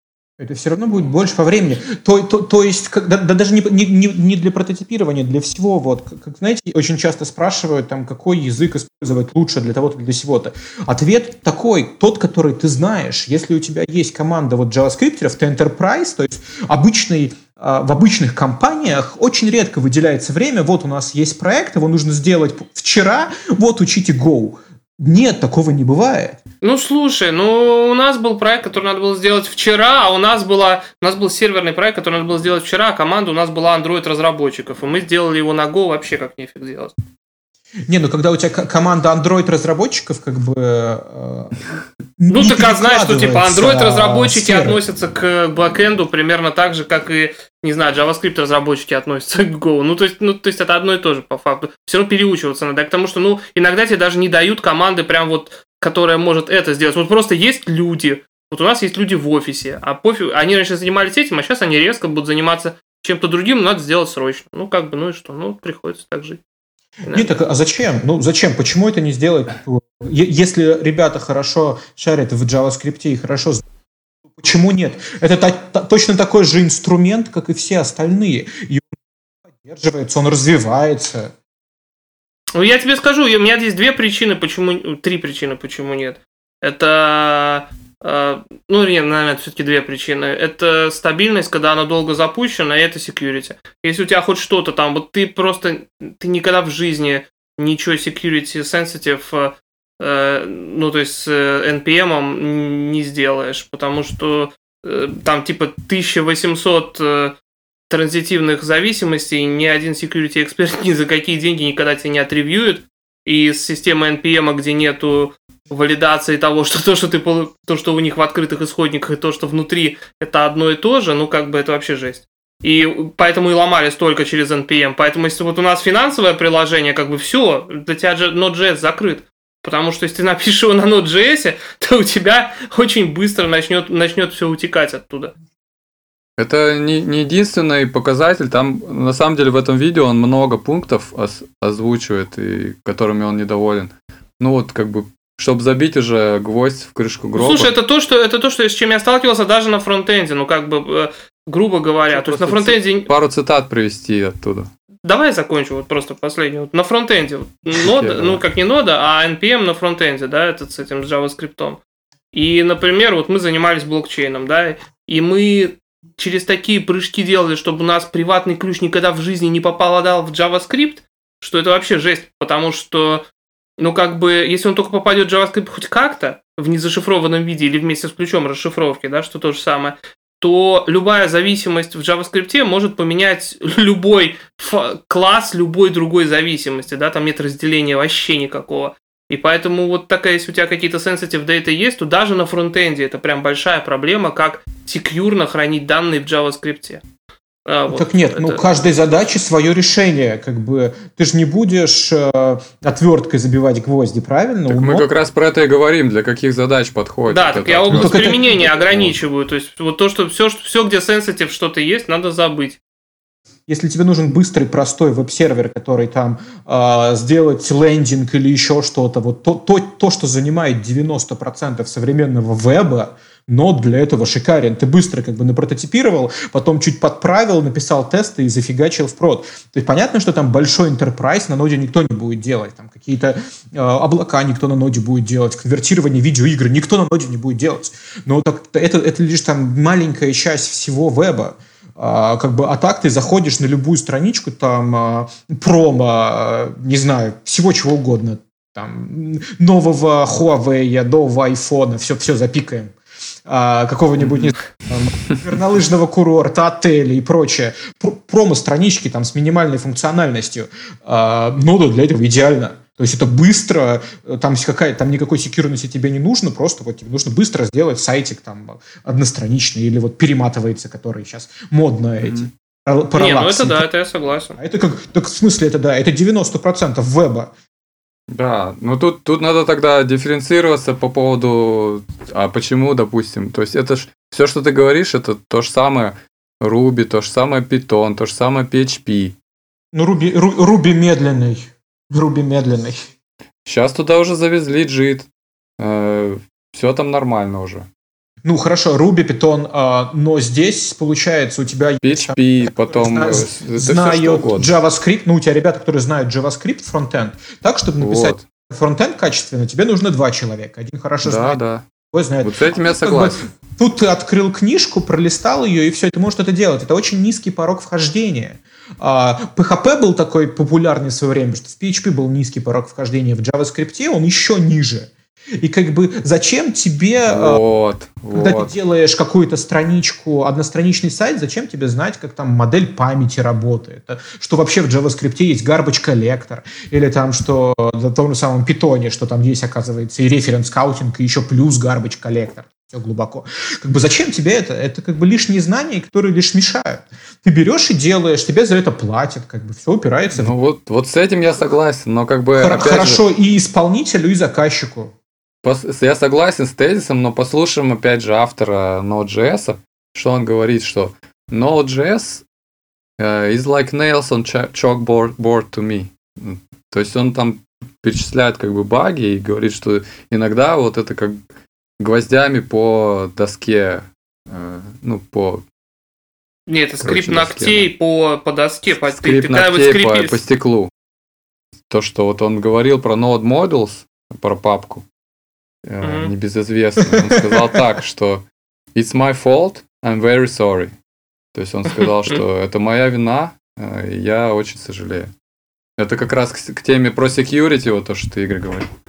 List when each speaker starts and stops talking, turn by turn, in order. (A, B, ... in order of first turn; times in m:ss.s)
0:00.4-0:26.4 A
0:26.6-0:36.9 B
0:37.9-0:41.6 A
0:42.2-0:44.8 A
0:42.3-1:06.4 B
1:07.1-1:07.4 B
1:07.1-1:13.6 A
1:14.3-1:18.9 A
1:19.6-1:21.3 A
1:22.6-1:47.4 B
1:47.9-2:15.3 B
2:16.4-2:27.7 C
2:27.4-2:33.1 B
2:32.1-2:34.7 C
2:35.0-2:41.8 B
2:37.8-2:38.4 C
2:42.3-2:53.2 B
2:53.8-3:17.0 B
3:17.7-3:18.7 B
3:17.9-3:25.1 A
3:24.7-3:29.2 C
3:27.3-3:32.8 B
3:27.9-3:28.4 A
3:33.7-4:12.9 A
4:13.5-4:33.9 A
4:14.2-4:14.5 C
4:32.2-4:32.5 C
4:33.2-4:34.6 B
4:34.6-4:37.5 A
4:38.3-4:49.4 C
4:49.9-4:53.1 A
4:53.6-4:55.3 C
4:55.8-4:57.9 C
4:58.4-5:11.6 A
5:02.0-5:04.7 C
5:08.0-5:08.4 C
5:11.2-5:11.8 C
5:12.1-5:27.6 A
5:12.4-5:13.4 C
5:27.3-5:28.7 C
5:28.3-5:50.5 A
5:50.3-5:53.2 C
5:52.6-5:55.1 A
5:55.6-6:02.4 C
6:03.2-6:11.4 C
6:12.0-6:15.6 C
6:16.7-6:20.4 B
6:17.0-6:17.9 C
6:19.0-6:20.9 C
6:21.9-6:25.0 C
6:25.8-6:30.9 C
6:26.0-6:26.3 B
6:27.2-6:27.4 A
6:31.5-6:35.3 C
6:32.0-6:32.4 B
6:36.0-6:38.9 C